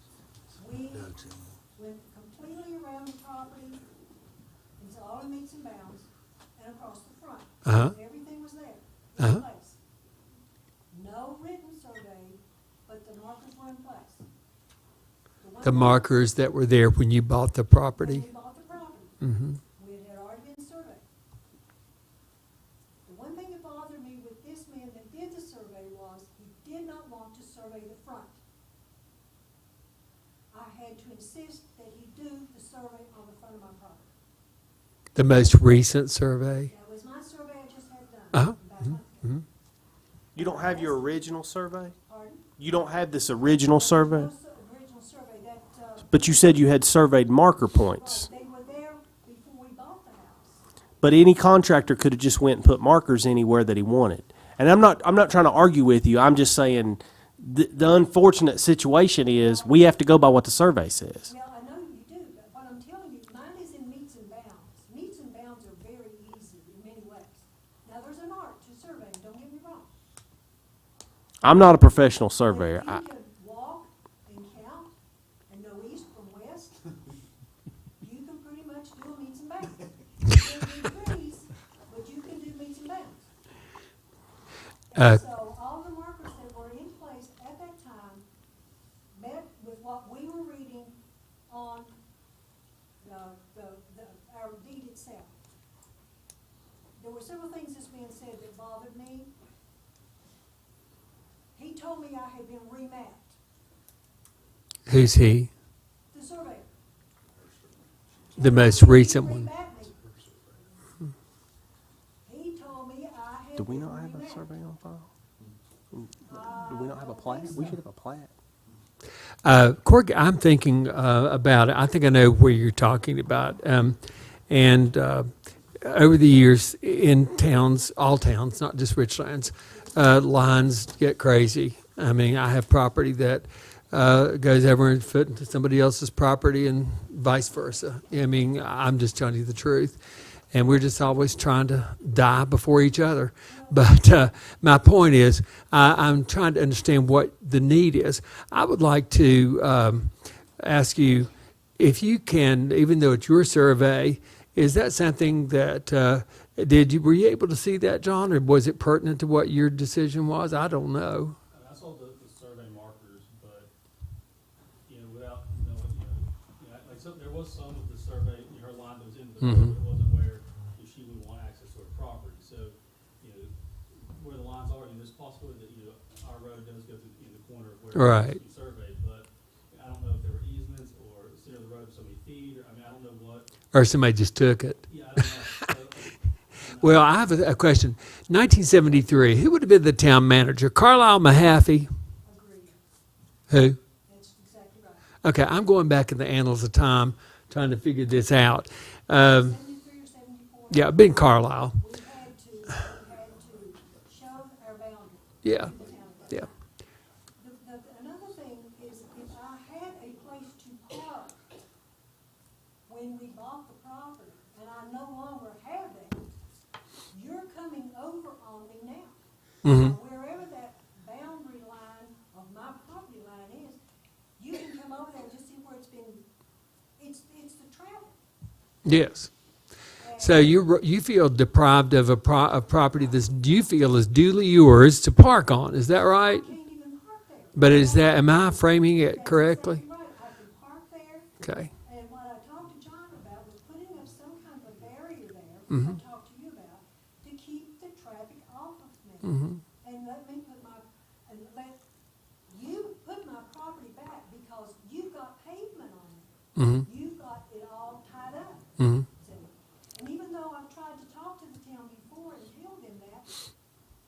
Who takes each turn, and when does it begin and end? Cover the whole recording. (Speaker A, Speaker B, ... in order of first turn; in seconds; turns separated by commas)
Speaker A: 0.5-3.8, Speaker A: 4.8-9.8, Speaker B: 7.7-8.0, Speaker B: 9.2-9.4, Speaker A: 10.9-14.2, Speaker A: 15.4-16.3, Speaker B: 15.6-18.3, Speaker A: 18.0-19.2, Speaker B: 19.2-19.6, Speaker A: 19.8-21.1, Speaker A: 23.1-28.4, Speaker A: 30.5-34.1, Speaker B: 35.1-36.7, Speaker A: 36.7-39.4, Speaker B: 38.3-38.6, Speaker C: 40.4-42.0, Speaker A: 40.4-41.4, Speaker A: 42.0-42.4, Speaker C: 42.6-44.3, Speaker A: 43.4-46.7, Speaker C: 46.1-48.3, Speaker A: 47.9-50.6, Speaker C: 51.0-61.3, Speaker A: 59.3-59.9, Speaker A: 61.2-69.9, Speaker C: 71.4-73.0, Speaker A: 72.5-74.9, Speaker A: 75.5-76.8, Speaker A: 78.0-83.2, Speaker A: 84.9-88.3, Speaker A: 89.1-90.9, Speaker A: 91.5-91.9, Speaker A: 93.0-95.3, Speaker A: 97.0-99.3, Speaker A: 101.5-103.4, Speaker B: 104.9-105.5, Speaker A: 106.1-106.7, Speaker A: 108.3-110.0, Speaker B: 108.4-109.5, Speaker A: 112.2-114.5, Speaker C: 113.6-115.1, Speaker C: 115.9-118.3, Speaker A: 116.2-117.8, Speaker B: 119.4-125.3, Speaker B: 125.8-140.0, Speaker B: 140.5-161.4, Speaker A: 143.5-143.8, Speaker D: 161.5-163.7, Speaker D: 164.9-183.5, Speaker B: 169.4-169.8, Speaker B: 177.9-178.4, Speaker B: 183.7-184.9, Speaker D: 184.9-187.3, Speaker B: 186.8-191.9, Speaker A: 192.2-192.8, Speaker B: 193.5-193.8, Speaker A: 194.1-195.1, Speaker B: 195.2-199.6, Speaker A: 199.2-206.6, Speaker B: 200.7-201.8, Speaker B: 205.4-205.7, Speaker A: 207.4-211.4, Speaker A: 212.9-216.3, Speaker A: 217.1-223.8, Speaker B: 219.6-219.9, Speaker A: 224.4-226.2, Speaker A: 227.0-228.2, Speaker B: 228.8-229.3, Speaker A: 230.0-230.6, Speaker B: 230.2-236.5, Speaker A: 235.9-241.3, Speaker B: 237.6-239.8, Speaker B: 241.4-241.7, Speaker A: 241.8-251.8, Speaker B: 245.7-246.0, Speaker B: 249.3-249.6, Speaker A: 252.5-258.6, Speaker B: 256.6-256.9, Speaker B: 258.8-259.1, Speaker A: 259.2-263.5